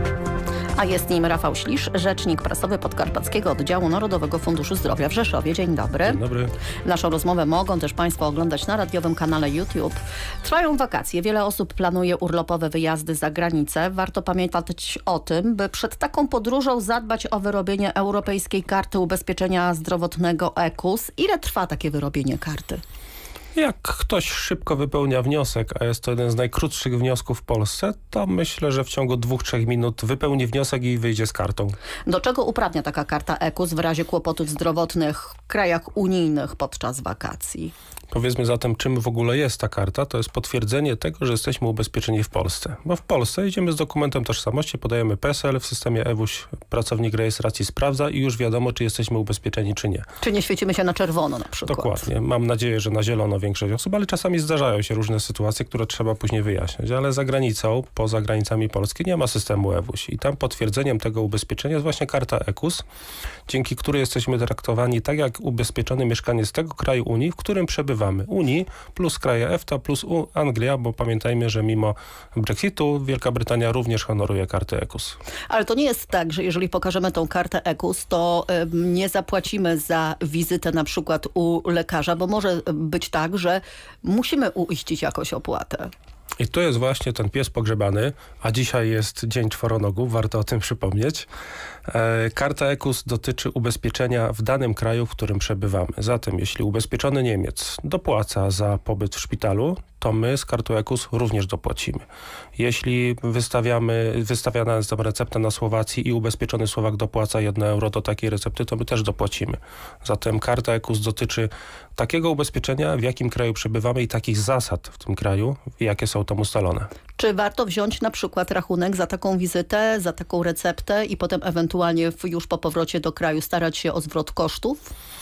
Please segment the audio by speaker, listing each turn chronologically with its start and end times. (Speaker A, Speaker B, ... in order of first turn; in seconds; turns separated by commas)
Speaker A: 0.8-6.2, Speaker B: 6.0-6.5, Speaker A: 6.8-22.8, Speaker B: 23.6-31.8, Speaker A: 32.1-37.7, Speaker B: 38.1-50.0, Speaker A: 50.2-52.0, Speaker B: 51.7-62.8, Speaker B: 63.5-75.2, Speaker A: 75.5-85.9, Speaker B: 86.4-91.3, Speaker B: 91.9-102.0, Speaker B: 102.6-116.9, Speaker A: 117.2-124.9